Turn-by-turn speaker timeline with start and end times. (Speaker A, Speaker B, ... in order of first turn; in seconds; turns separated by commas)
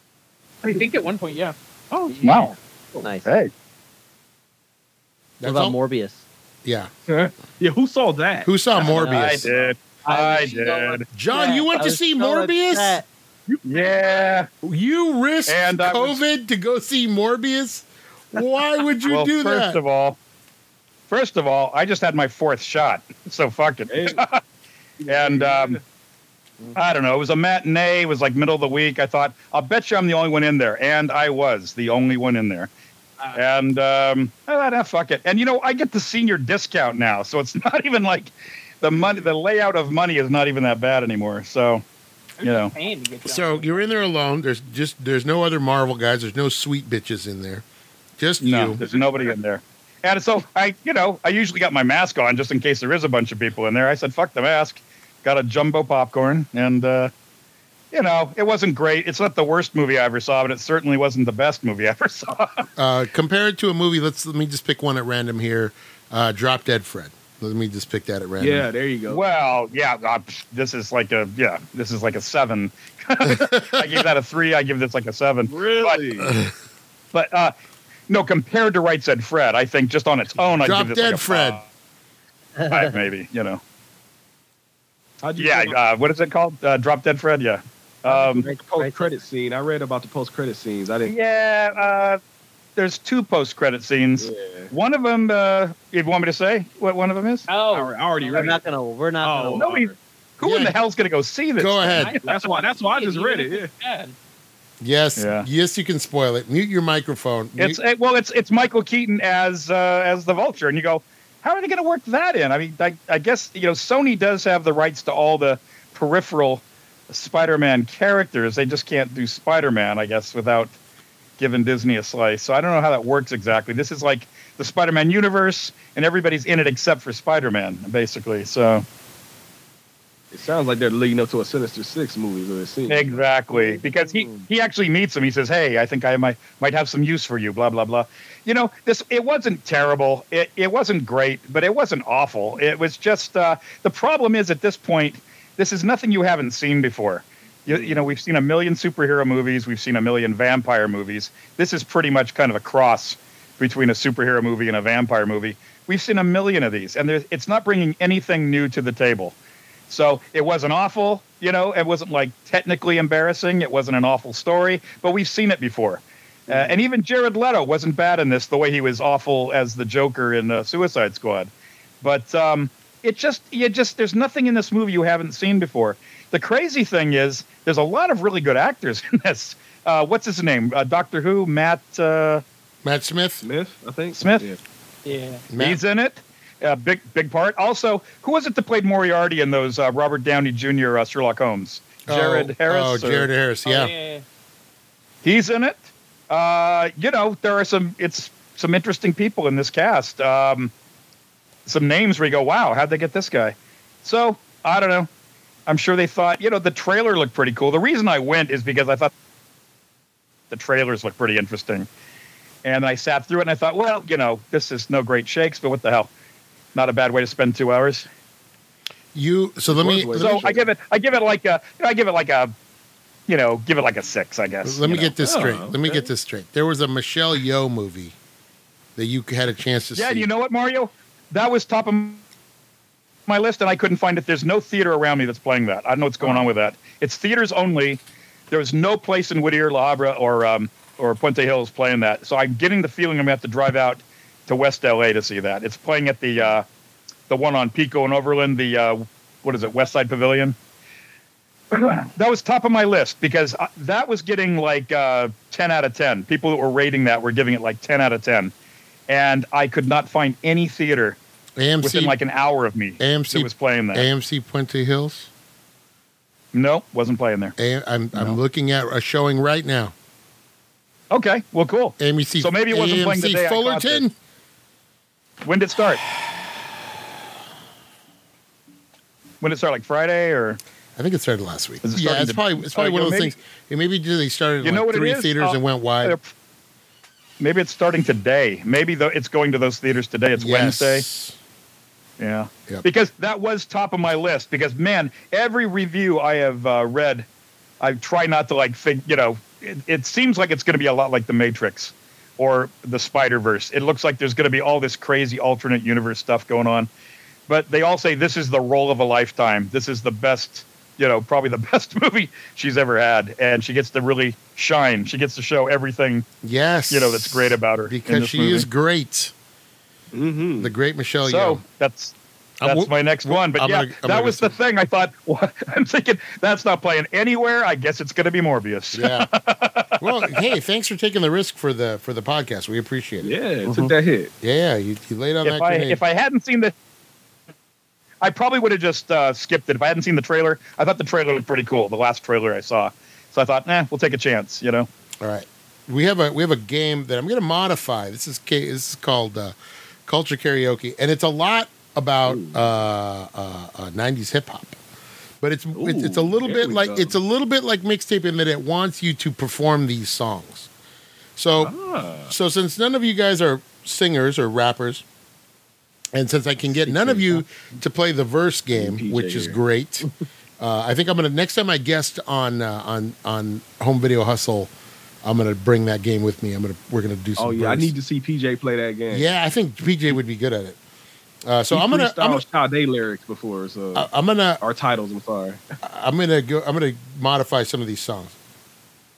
Speaker A: 0.6-1.6, Speaker B: 1.9-3.1, Speaker C: 2.1-3.3, Speaker D: 2.2-2.5, Speaker D: 3.2-3.5, Speaker E: 5.4-5.8, Speaker C: 5.4-6.2, Speaker E: 6.7-6.9, Speaker B: 7.1-9.7, Speaker E: 8.4-9.5, Speaker C: 8.8-13.1, Speaker D: 8.9-11.0, Speaker E: 11.1-13.0, Speaker B: 13.5-14.4, Speaker D: 13.7-14.5, Speaker E: 14.6-19.8, Speaker D: 15.5-16.2, Speaker D: 19.1-20.2, Speaker D: 21.1-24.4, Speaker B: 23.9-24.2, Speaker B: 25.0-25.8, Speaker D: 25.1-25.8, Speaker D: 26.8-32.7, Speaker D: 33.3-41.8, Speaker B: 38.9-39.3, Speaker A: 42.4-44.0, Speaker D: 42.4-42.7, Speaker E: 43.2-47.6, Speaker E: 48.2-48.8, Speaker D: 48.4-57.1, Speaker B: 48.8-49.3, Speaker D: 57.9-62.7, Speaker E: 62.8-68.7, Speaker B: 68.4-69.2, Speaker D: 69.1-76.0, Speaker E: 73.2-74.0, Speaker B: 75.5-76.3, Speaker E: 76.2-76.5, Speaker D: 77.1-77.5, Speaker D: 78.1-81.6, Speaker E: 80.6-81.6, Speaker C: 82.6-82.9, Speaker D: 82.7-83.6, Speaker B: 85.2-85.8, Speaker D: 85.4-88.5, Speaker C: 88.1-89.1, Speaker B: 88.3-91.2, Speaker D: 91.1-92.2, Speaker D: 92.8-97.5, Speaker B: 94.2-94.7, Speaker A: 97.5-98.5, Speaker B: 97.7-98.6, Speaker C: 98.3-99.7, Speaker B: 99.2-100.0, Speaker D: 99.6-102.4, Speaker E: 100.4-100.8, Speaker E: 101.6-102.1, Speaker A: 102.0-104.2, Speaker B: 102.2-103.7, Speaker E: 104.8-107.8, Speaker D: 105.2-105.5, Speaker D: 107.6-120.8, Speaker D: 121.4-128.8, Speaker B: 130.3-134.4, Speaker D: 132.9-159.4, Speaker B: 147.7-148.1, Speaker D: 159.9-171.5, Speaker B: 166.5-166.8, Speaker D: 172.0-182.4, Speaker E: 182.8-183.5, Speaker B: 183.4-184.6, Speaker D: 184.1-184.5, Speaker A: 185.1-185.4, Speaker E: 185.5-185.8, Speaker D: 185.6-193.3, Speaker E: 192.1-193.9, Speaker A: 193.7-194.2, Speaker D: 195.2-200.7, Speaker D: 201.7-205.1, Speaker D: 205.7-209.1, Speaker D: 210.5-211.9, Speaker D: 212.6-216.1, Speaker D: 216.8-218.1, Speaker E: 219.2-220.4, Speaker B: 219.7-220.7, Speaker D: 220.2-222.5, Speaker D: 223.3-225.1, Speaker E: 224.6-228.2, Speaker B: 225.2-226.1, Speaker E: 229.0-230.3, Speaker D: 229.9-232.2, Speaker D: 233.3-246.7, Speaker B: 236.2-236.5, Speaker D: 247.3-250.6, Speaker D: 251.7-258.5, Speaker D: 259.1-261.2, Speaker E: 261.6-262.2, Speaker D: 261.8-264.1, Speaker E: 263.0-265.3, Speaker D: 266.5-267.5, Speaker E: 267.6-269.9, Speaker D: 271.1-274.0, Speaker E: 272.0-274.1, Speaker D: 275.4-276.0, Speaker D: 279.4-280.6, Speaker E: 281.0-286.2, Speaker D: 281.8-283.4, Speaker D: 284.6-286.3, Speaker D: 287.4-291.1, Speaker E: 290.4-291.4, Speaker D: 292.2-297.3, Speaker D: 297.8-306.9, Speaker D: 307.5-316.3, Speaker E: 316.4-319.3, Speaker D: 316.9-318.7, Speaker B: 320.1-320.7, Speaker E: 320.6-321.6, Speaker D: 321.2-330.0, Speaker E: 322.6-324.6, Speaker E: 328.9-329.3, Speaker E: 330.0-333.4, Speaker B: 333.2-334.3, Speaker E: 334.4-336.0, Speaker D: 335.4-336.7, Speaker D: 338.2-344.9, Speaker E: 345.2-354.8, Speaker B: 352.2-352.7, Speaker E: 355.4-360.7, Speaker B: 355.8-357.2, Speaker E: 361.4-361.7, Speaker B: 361.6-362.3, Speaker E: 362.3-365.0, Speaker E: 366.1-370.1, Speaker B: 366.8-367.4, Speaker B: 368.7-369.6, Speaker E: 370.6-374.7, Speaker E: 375.2-377.9, Speaker B: 377.4-379.3, Speaker E: 379.1-380.8, Speaker E: 381.4-382.4, Speaker B: 381.7-384.1, Speaker E: 383.9-384.6, Speaker B: 384.6-385.6, Speaker E: 385.8-388.3